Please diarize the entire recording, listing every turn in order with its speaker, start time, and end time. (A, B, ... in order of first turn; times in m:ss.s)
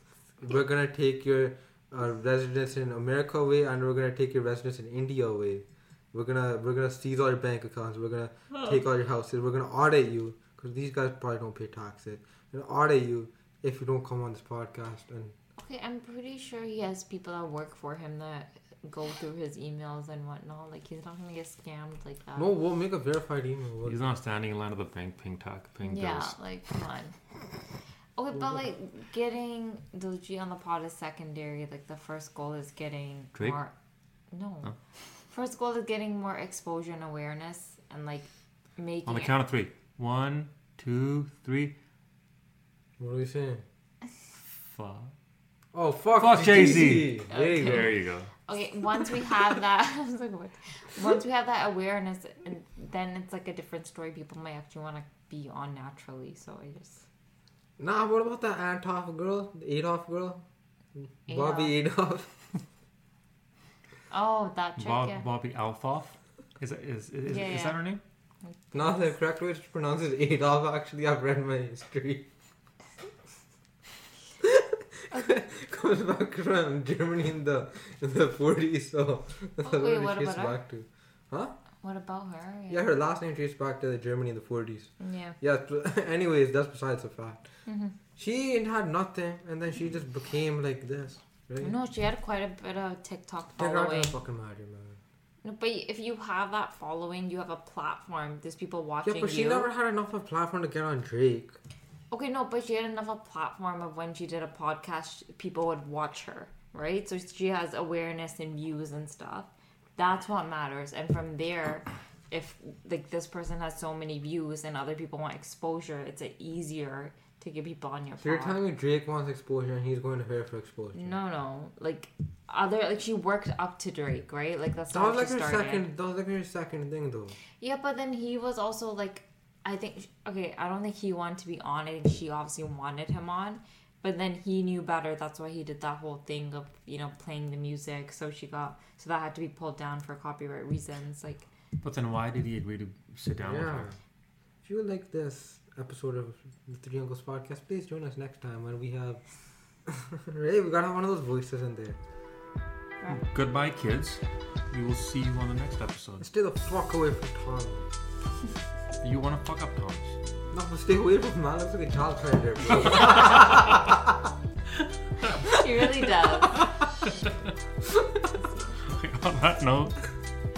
0:00.4-0:15.3 A
0:15.6-0:22.5 B
0:22.4-0:24.0 A
0:23.8-0:26.3 C
0:25.9-0:27.2 B
0:28.2-0:33.7 B
0:34.3-0:34.7 B
0:35.3-0:39.3 B
0:39.0-0:41.7 C
0:43.0-0:43.6 A
0:44.6-0:45.1 C
0:45.7-0:47.9 A
0:46.2-0:48.3 C
0:47.3-0:57.0 B
0:57.8-1:00.4 A
1:01.3-1:01.7 B
1:01.3-1:02.3 A
1:04.1-1:05.2 B
1:04.8-1:08.0 C
1:07.3-1:07.8 B
1:08.5-1:08.9 B
1:08.7-1:12.3 A
1:14.4-1:21.5 A
1:19.6-1:20.6 B
1:21.8-1:22.8 B
1:22.7-1:27.4 A
1:25.0-1:25.4 B
1:27.6-1:28.0 B
1:28.2-1:31.7 A
1:31.6-1:34.1 B
1:33.6-1:35.0 A
1:35.4-1:39.7 B
1:39.0-1:41.6 A
1:42.1-1:58.6 B
1:58.2-2:01.1 A
2:00.9-2:05.8 B
2:04.9-2:07.3 A
2:07.6-2:21.4 B
2:21.8-2:23.9 C
2:23.4-2:24.0 A
2:24.6-2:29.2 A
2:29.9-2:32.0 A
2:33.1-2:36.2 C
2:36.2-2:37.9 A
2:39.0-2:40.2 C
2:40.5-2:44.2 A
2:45.4-2:46.6 B
2:46.6-2:47.3 C
2:48.8-2:50.1 C